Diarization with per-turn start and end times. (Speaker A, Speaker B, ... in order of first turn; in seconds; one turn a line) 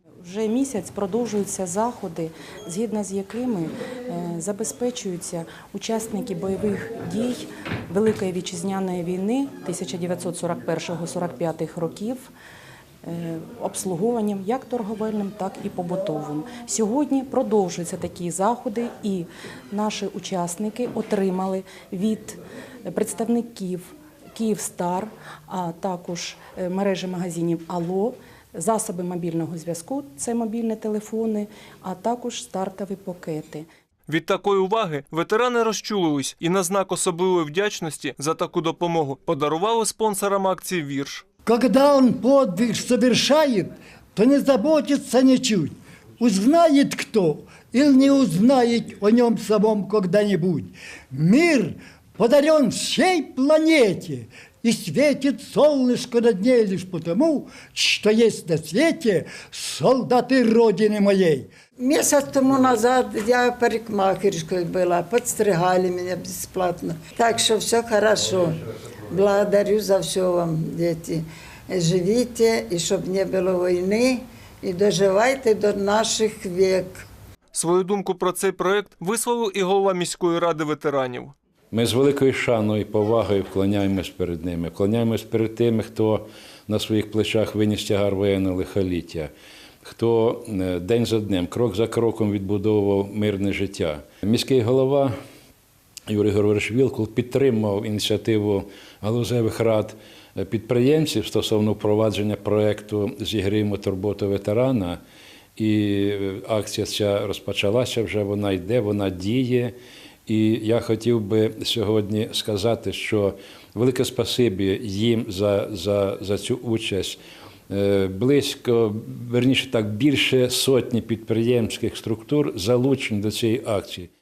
Speaker A: 0.2-12.2
Speaker A: 13.0-33.6
Speaker B: 34.1-41.2
Speaker C: 41.5-61.5
Speaker D: 61.8-77.0
Speaker B: 77.5-81.3
Speaker E: 81.7-89.3
Speaker E: 89.8-95.1
Speaker E: 96.1-105.0
Speaker E: 105.6-109.8
Speaker E: 110.3-124.1